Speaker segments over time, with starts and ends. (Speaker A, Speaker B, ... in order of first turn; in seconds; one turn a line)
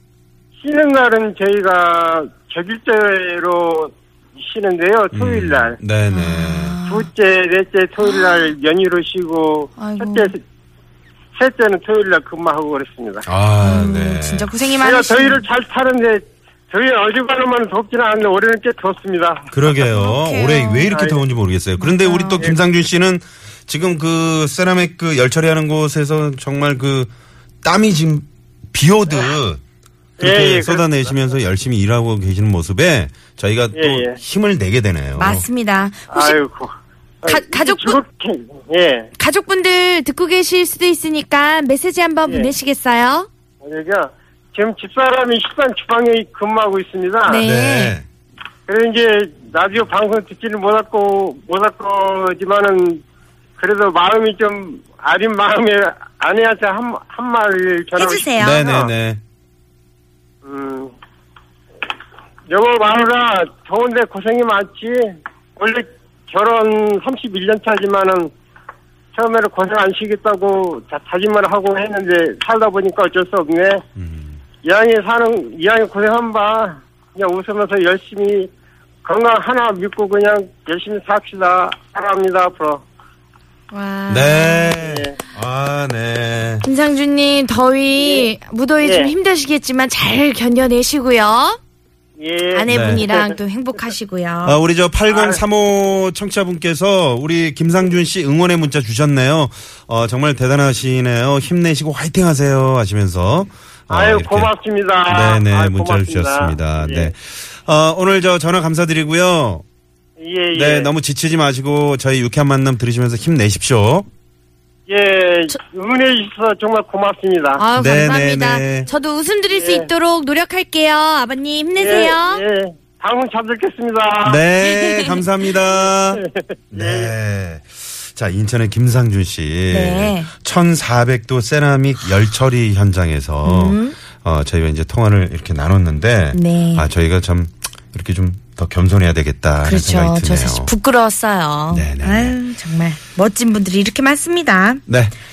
Speaker A: 0.6-5.8
Speaker B: 5.1-6.8
Speaker C: 6.1-7.1
Speaker A: 6.8-10.4
Speaker C: 8.0-8.5
Speaker C: 9.8-10.3
Speaker A: 11.3-13.2
Speaker B: 13.3-14.5
Speaker C: 13.6-15.4
Speaker A: 14.8-19.5
Speaker B: 19.5-27.1
Speaker C: 19.9-20.9
Speaker A: 20.9-21.2
Speaker C: 21.8-22.4
Speaker B: 27.6-29.6
Speaker B: 30.2-35.5
Speaker A: 30.2-31.1
Speaker A: 33.7-34.2
Speaker C: 35.2-36.4
Speaker A: 36.1-36.7
Speaker A: 37.2-39.1
Speaker C: 37.3-38.0
Speaker C: 39.2-43.3
Speaker A: 42.2-42.5
Speaker A: 43.6-47.4
Speaker C: 47.2-48.0
Speaker B: 47.4-48.1
Speaker A: 48.7-53.0
Speaker A: 53.6-58.9
Speaker C: 58.0-58.6
Speaker B: 58.4-59.2
Speaker A: 60.4-60.9
Speaker A: 62.5-68.3
Speaker A: 69.1-73.8
Speaker B: 74.0-74.4
Speaker A: 74.6-78.5
Speaker A: 79.0-82.8
Speaker C: 83.7-84.8
Speaker B: 84.1-86.7
Speaker A: 84.8-85.1
Speaker C: 86.6-91.6
Speaker A: 88.0-88.3
Speaker A: 88.8-89.1
Speaker A: 92.2-93.3
Speaker C: 92.5-94.6
Speaker B: 92.7-93.1
Speaker B: 94.4-104.5
Speaker A: 95.1-95.4
Speaker A: 103.9-107.1
Speaker B: 105.1-109.6
Speaker A: 110.2-110.9
Speaker B: 110.5-114.1
Speaker A: 114.9-117.6
Speaker C: 117.6-122.4
Speaker B: 117.8-118.9
Speaker A: 119.5-119.9
Speaker A: 121.8-124.4
Speaker B: 124.2-140.7
Speaker C: 124.8-125.2
Speaker A: 126.1-127.1
Speaker C: 129.7-130.3
Speaker C: 133.4-134.0
Speaker C: 136.3-136.9
Speaker C: 139.6-144.8
Speaker B: 141.7-142.4
Speaker B: 144.9-145.1